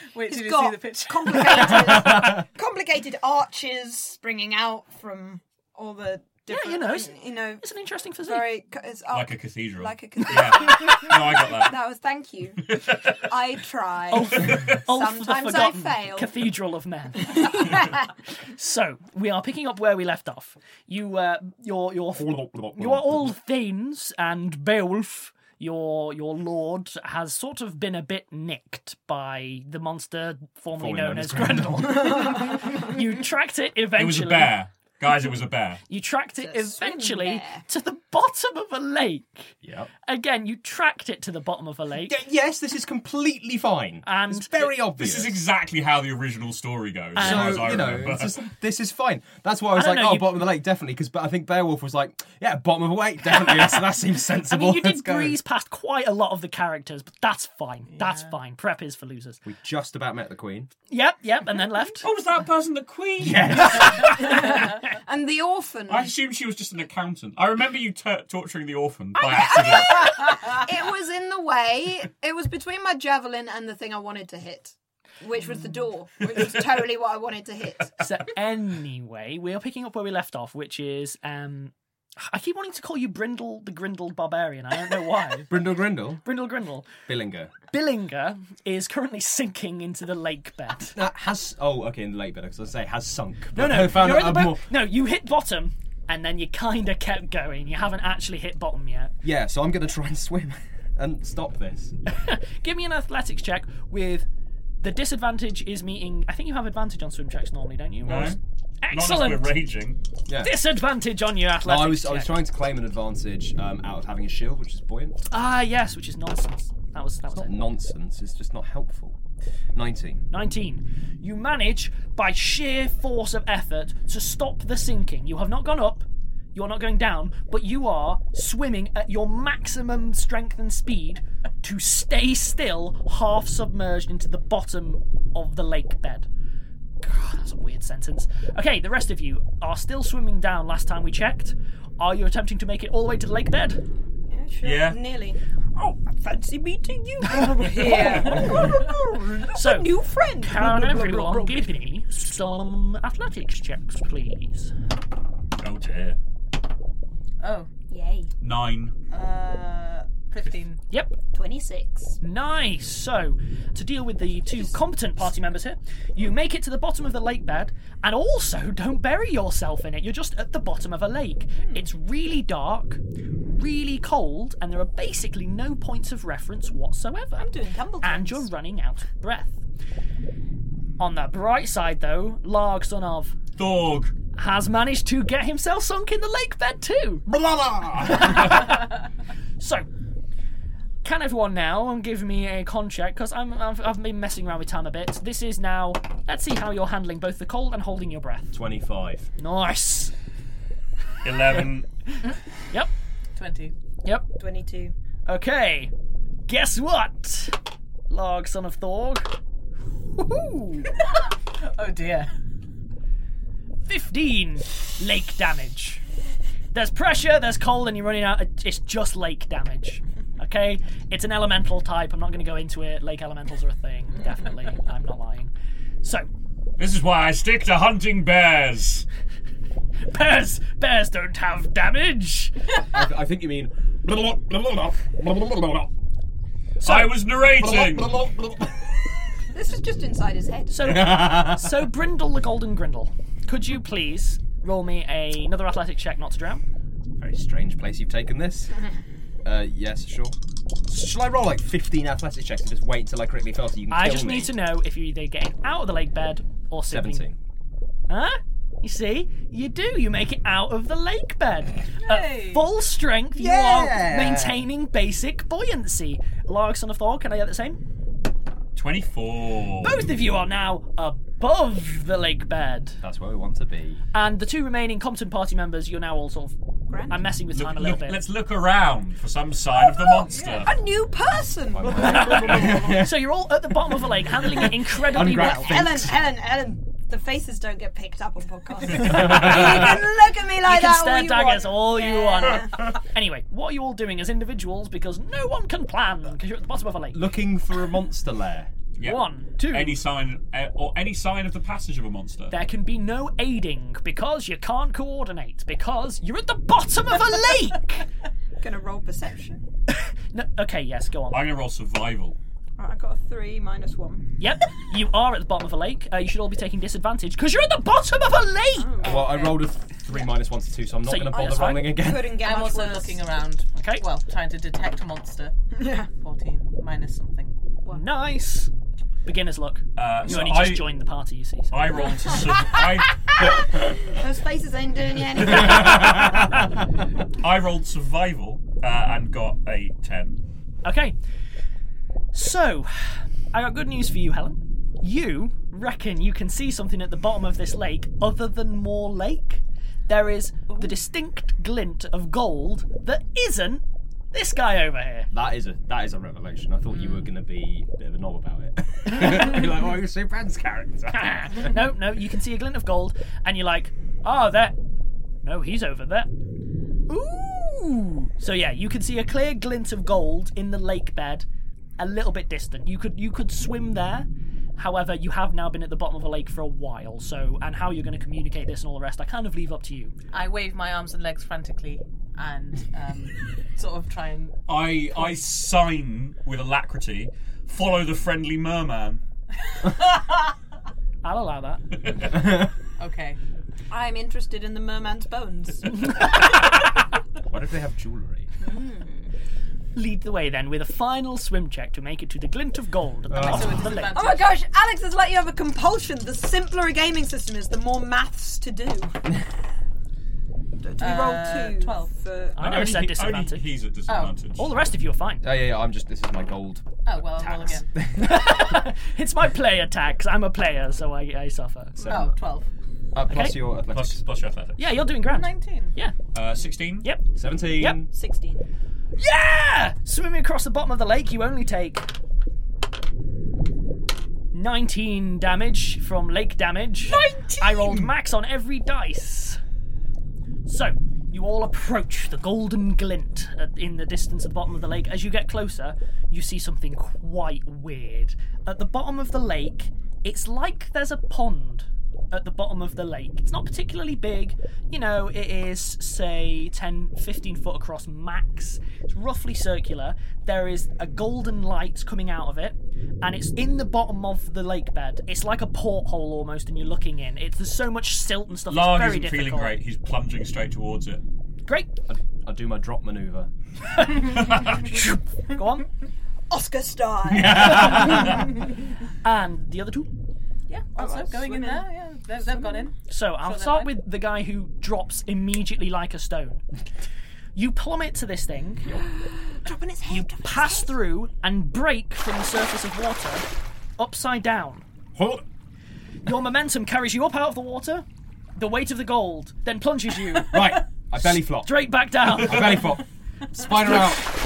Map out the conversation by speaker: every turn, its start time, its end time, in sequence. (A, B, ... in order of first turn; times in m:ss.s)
0:00.1-0:01.9 A
0:00.3-0:07.6 B
0:01.8-0:02.4 C
0:06.5-0:08.5 D
0:08.2-0:16.4 B
0:09.1-0:11.8 E
0:12.7-0:13.1 E
0:14.1-0:17.9 D
0:17.3-0:18.0 B
0:18.5-0:34.6 D
0:22.2-0:23.3 C
0:30.8-0:32.6 C
0:33.9-0:35.8 E
0:35.9-0:39.5 D
0:36.4-0:37.6 B
0:39.6-0:39.9 C
0:40.0-0:42.2 D
0:42.0-0:45.4 C
0:44.0-0:44.7 D
0:45.0-0:48.4 E
0:47.2-0:47.7 D
0:47.2-0:55.4 C
0:49.7-0:50.4 D
0:53.4-0:53.8 D
0:54.4-0:59.4 D
0:59.4-1:00.7 C
1:00.9-1:02.0 D
1:02.0-1:04.2 E
1:03.2-1:04.3 C
1:04.1-1:06.1 B
1:05.9-1:10.4 E
1:09.2-1:18.0 B
1:18.0-1:25.5 D
1:25.5-1:26.2 C
1:26.2-1:27.0 D
1:27.1-1:27.5 C
1:27.7-1:31.0 D
1:31.0-1:34.7 C
1:33.6-1:39.1 D
1:39.2-1:42.0 C
1:42.1-1:44.3 D
1:44.8-1:49.6 D
1:48.0-1:48.4 E
1:48.9-1:50.0 E
1:50.3-1:50.6 C
1:50.4-1:52.4 D
1:51.6-1:55.2 C
1:55.3-1:57.6 D
1:57.3-1:59.2 C
1:59.8-2:00.2 C
2:00.3-2:16.3 D
2:17.0-2:23.8 D
2:24.3-2:31.7 B
2:24.6-2:25.0 E
2:27.8-2:28.6 C
2:27.9-2:28.4 D
2:29.5-2:34.7 D
2:35.6-2:36.2 E
2:37.4-2:37.7 A
2:37.9-2:38.3 B
2:38.4-2:38.9 E
2:39.1-2:40.8 A
2:40.9-2:41.2 D
2:41.3-2:42.2 B
2:42.2-2:57.5 D
2:57.4-2:58.5 B
2:58.0-2:59.6 D
3:01.0-3:03.4 D
3:03.6-3:04.1 E
3:04.3-3:07.3 D
3:07.3-3:08.4 C
3:08.0-3:09.0 D
3:09.6-3:09.9 D
3:11.0-3:18.6 D
3:18.5-3:19.3 C
3:19.4-3:20.1 D
3:21.2-3:21.9 E
3:23.4-3:23.7 A
3:24.4-3:25.0 B
3:25.3-3:25.9 D
3:26.5-3:29.4 D
3:30.2-3:30.9 D
3:31.1-3:32.3 A
3:33.8-3:36.0 D
3:36.7-3:45.5 D
3:46.8-3:49.1 E
3:50.1-3:52.5 D
3:52.9-3:55.9 C
3:56.8-3:58.2 E
3:56.8-3:57.2 D
3:57.5-3:58.9 C
3:59.5-4:00.9 B
4:00.7-4:06.6 D
4:00.8-4:01.7 C
4:07.2-4:08.7 C
4:09.4-4:10.4 C
4:10.9-4:14.6 C
4:13.9-4:17.3 D
4:16.9-4:17.4 C
4:18.1-4:27.8 D
4:22.0-4:22.7 A
4:23.4-4:24.7 C
4:28.8-4:30.0 E
4:29.8-4:33.0 D
4:33.0-4:34.0 C
4:34.1-4:36.6 D
4:36.9-4:37.2 B
4:37.1-4:38.2 D
4:37.5-4:40.8 E
4:39.7-4:43.0 B
4:41.7-4:43.2 C
4:41.8-4:45.8 D
4:44.8-4:46.2 C
4:45.3-4:52.9 B
4:49.0-4:49.8 C
4:49.3-4:49.9 D
4:50.6-4:57.2 D
4:57.1-4:58.7 C
4:59.0-5:02.6 E
4:59.0-5:00.0 D
5:02.5-5:08.1 D
5:08.6-5:09.6 B
5:09.9-5:11.4 D
5:11.3-5:12.4 E
5:12.8-5:14.3 B
5:14.4-5:19.1 D
5:18.8-5:19.6 B
5:19.0-5:22.4 C
5:21.0-5:22.0 D
5:21.9-5:23.3 B
5:22.4-5:25.6 A
5:23.8-5:24.0 D
5:25.7-5:26.1 B
5:26.2-5:27.5 A
5:27.9-5:28.7 D
5:29.2-5:32.1 D
5:30.0-5:30.9 E
5:31.7-5:33.4 E
5:33.8-5:36.4 B
5:35.4-5:36.6 E
5:35.8-5:36.2 C
5:37.4-5:40.4 E
5:40.8-5:41.2 D
5:42.3-5:55.3 D
5:55.3-6:01.7 C
6:01.1-6:04.8 D
6:05.4-6:06.3 D
6:07.1-6:11.5 D
6:12.0-6:20.1 D
6:20.3-6:24.6 A
6:24.7-6:29.2 E
6:31.2-6:31.8 D
6:32.4-6:32.7 C
6:33.0-6:33.4 A
6:33.9-6:36.4 B
6:37.5-6:38.5 C
6:38.6-6:39.3 B
6:40.0-6:44.2 D
6:43.3-6:43.9 C
6:43.4-6:44.6 A
6:44.1-6:49.2 B
6:50.8-6:52.6 B
6:51.0-6:52.2 A
6:52.6-6:53.6 D
6:52.6-6:54.7 E
6:54.1-6:54.4 A
6:54.6-6:55.4 D
6:55.4-6:57.0 C
6:57.0-6:57.9 A
6:57.4-7:02.0 D
6:57.9-6:58.8 C
7:02.0-7:02.3 C
7:02.0-7:02.7 A
7:03.1-7:04.2 C
7:03.3-7:03.6 D
7:03.9-7:04.9 E
7:04.8-7:06.2 D
7:05.2-7:05.9 A
7:06.3-7:07.1 E
7:07.0-7:08.0 D
7:07.4-7:08.1 C
7:08.1-7:08.7 B
7:09.2-7:12.1 D
7:14.5-7:19.6 D
7:17.1-7:17.6 B
7:20.7-7:49.8 D
7:48.7-7:51.2 E
7:51.7-7:51.9 D
7:52.1-7:53.5 C
7:53.9-7:55.9 D
7:54.3-7:54.8 E
7:56.5-7:58.4 B
7:57.3-7:58.4 C
7:57.8-7:58.2 D
7:59.2-8:00.1 D
8:00.7-8:03.9 A
8:01.0-8:02.9 B
8:03.1-8:06.6 D
8:07.6-8:08.9 D
8:09.5-8:10.9 B
8:10.1-8:13.4 D
8:14.0-8:14.8 D
8:15.2-8:15.4 C
8:16.3-8:18.0 D
8:18.6-8:22.9 D
8:20.5-8:24.3 C
8:23.8-8:24.2 D